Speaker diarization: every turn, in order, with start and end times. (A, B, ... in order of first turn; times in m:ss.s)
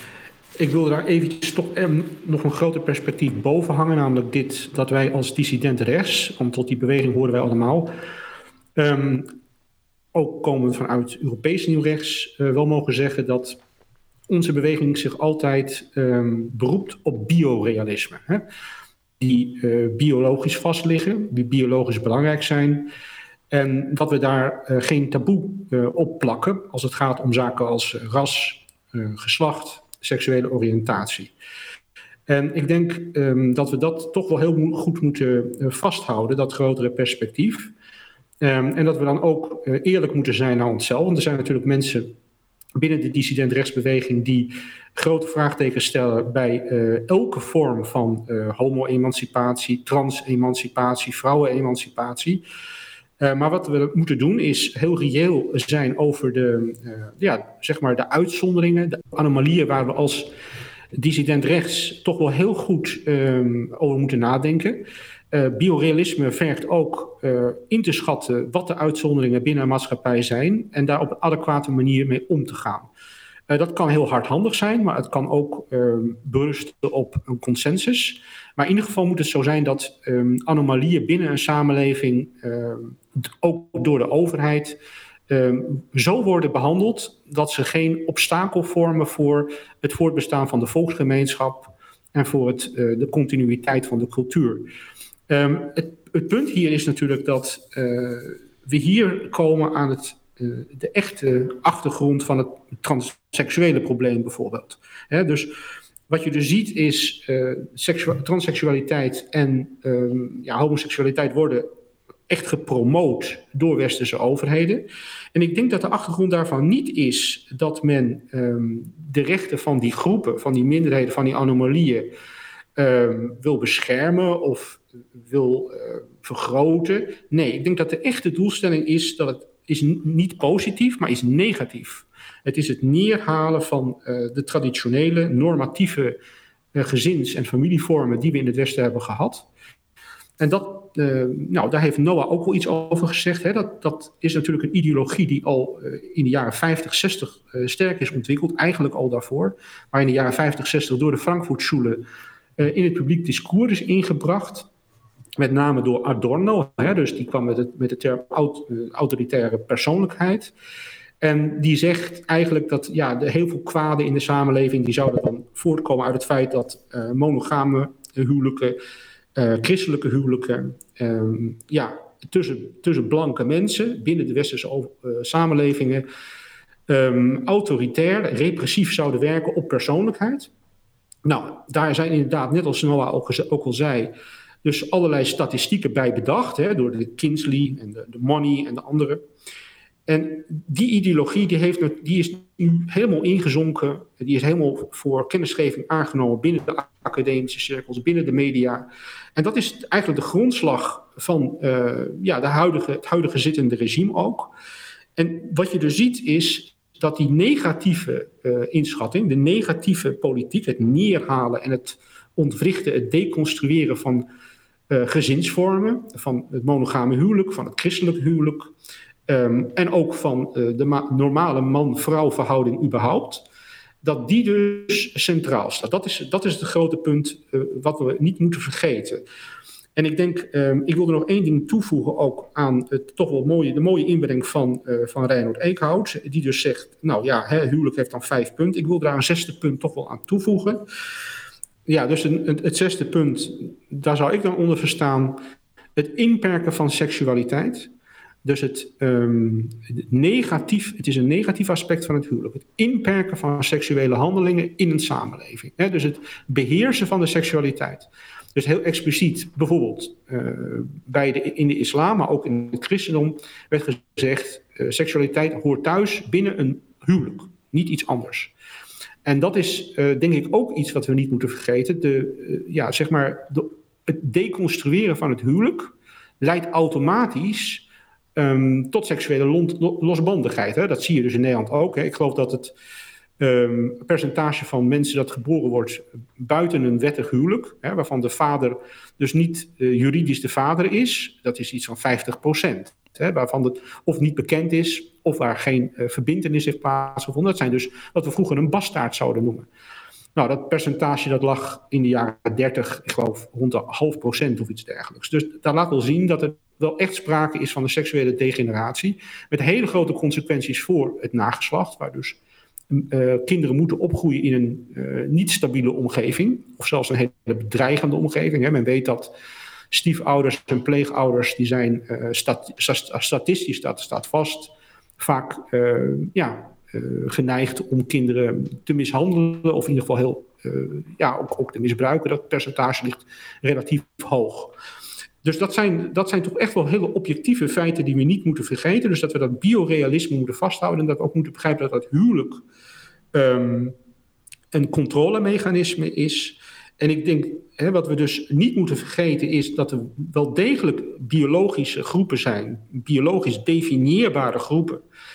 0:00.6-0:07.9 A
0:08.8-0:09.4 A
0:10.1-0:13.6 A
0:14.3-0:18.5 A
0:19.2-0:22.9 A
0:23.5-0:31.3 A
0:32.3-0:37.7 A
0:38.4-0:42.1 A
0:42.8-0:52.4 A
0:53.2-1:00.4 A
1:01.0-1:12.9 A
1:13.5-1:34.7 A
1:35.3-1:45.6 A
1:46.1-1:51.7 A
1:52.3-2:02.1 A
2:02.8-2:16.2 A
2:16.7-2:19.5 A
2:20.4-2:32.1 A
2:32.6-2:34.7 A
2:35.4-2:40.5 A
2:41.2-2:48.8 A
2:49.4-2:56.1 A
2:56.9-3:00.5 A
3:01.2-3:09.2 A
3:10.1-3:24.5 A
3:25.2-3:34.3 A
3:34.9-3:38.7 A
3:39.3-3:43.5 A
3:44.0-3:49.2 A
3:50.0-4:00.9 A
4:01.9-4:05.4 A
4:06.0-4:07.9 A
4:08.4-4:28.5 A
4:29.2-4:42.8 A
4:43.4-4:59.7 A
5:00.4-5:12.4 A
5:12.9-5:19.3 A
5:19.9-5:34.8 A
5:35.4-5:42.6 A
5:43.3-5:44.0 A
5:44.7-5:55.0 A